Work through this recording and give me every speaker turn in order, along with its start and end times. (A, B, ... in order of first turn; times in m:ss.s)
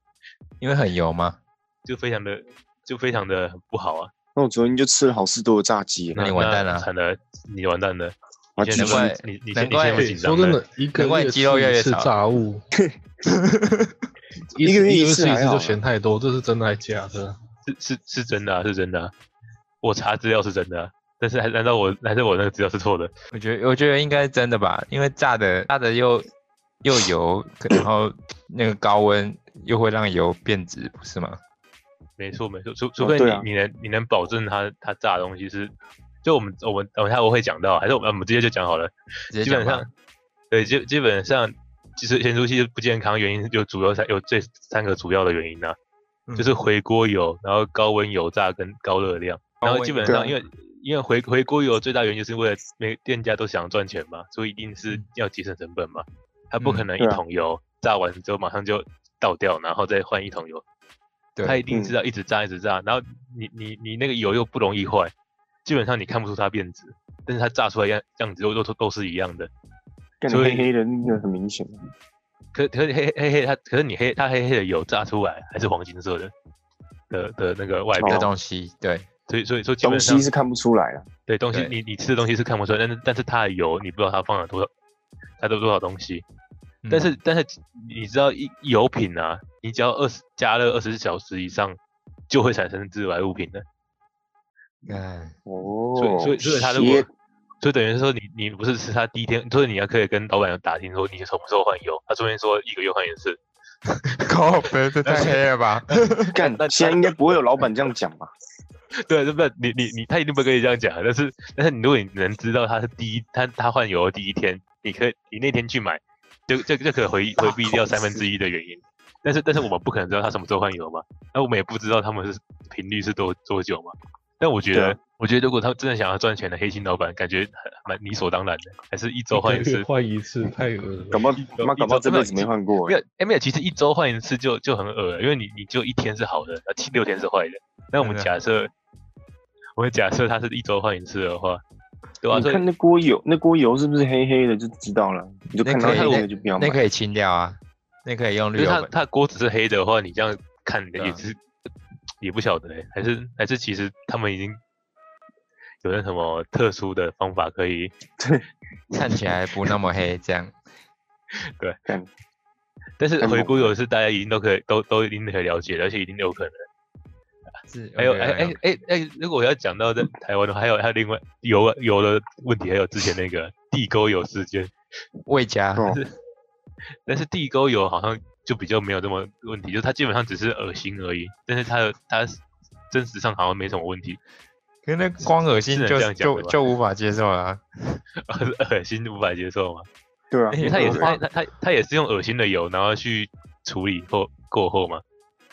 0:00.6-0:01.4 A
0:01.8-0:04.1 B
0:04.4-0:06.3 C
0:06.1-0:06.9 A
0:06.1-0:10.6 B
0:08.6-0:09.1 C
0:08.7-0:10.1 A
0:10.0-0:12.6 D
0:11.0-0:12.1 A
0:13.2-0:13.9 A
0:14.5-0:17.4 D
0:14.6-0:15.8 C
0:17.7-0:19.1 B
0:19.8-0:23.1 B
0:23.3-0:26.3 A
0:26.8-0:31.4 A
0:32.2-0:39.9 B
0:33.0-0:33.5 C
0:39.3-0:39.9 A
0:40.5-0:45.8 B
0:46.3-0:46.5 A
0:46.4-1:00.6 B
0:49.6-0:50.3 A
0:50.0-0:50.3 C
0:56.6-0:56.9 A
1:01.4-1:01.6 A
1:01.4-1:05.1 B
1:05.6-1:09.5 B
1:10.2-1:11.9 C
1:10.3-1:10.7 B
1:12.5-1:16.3 B
1:17.1-1:18.3 B
1:18.0-1:18.2 C
1:18.0-1:19.1 A
1:19.3-1:20.3 B
1:19.8-1:21.0 C
1:21.3-1:24.7 B
1:25.4-1:26.2 B
1:26.8-1:27.1 A
1:26.9-1:31.8 B
1:32.3-1:33.6 B
1:34.8-1:35.3 A
1:35.4-1:37.1 C
1:36.0-1:37.1 B
1:37.6-1:43.4 B
1:44.2-1:46.3 A
1:45.0-1:47.4 B
1:46.3-1:48.3 C
1:48.9-2:09.9 B
2:09.3-2:11.3 D
2:11.1-2:13.0 C
2:11.4-2:18.7 B
2:18.0-2:18.3 A
2:19.8-2:21.6 B
2:22.2-2:22.6 B
2:22.3-2:26.8 C
2:25.6-2:28.9 A
2:25.8-2:26.2 B
2:28.6-2:31.4 B
2:31.0-2:31.2 A
2:32.2-2:34.6 B
2:35.8-2:37.9 B
2:38.2-2:38.4 C
2:38.9-2:40.5 A
2:41.3-2:41.8 B
2:43.0-2:46.6 B
2:43.2-2:43.7 C
2:47.7-2:48.6 A
2:48.0-2:54.7 B
2:55.3-2:55.9 A
2:55.8-2:56.0 C
2:57.1-3:04.2 B
3:04.8-3:08.0 A
3:05.7-3:06.6 B
3:08.2-3:09.9 B
3:10.3-3:11.1 C
3:10.5-3:11.2 A
3:10.6-3:15.0 B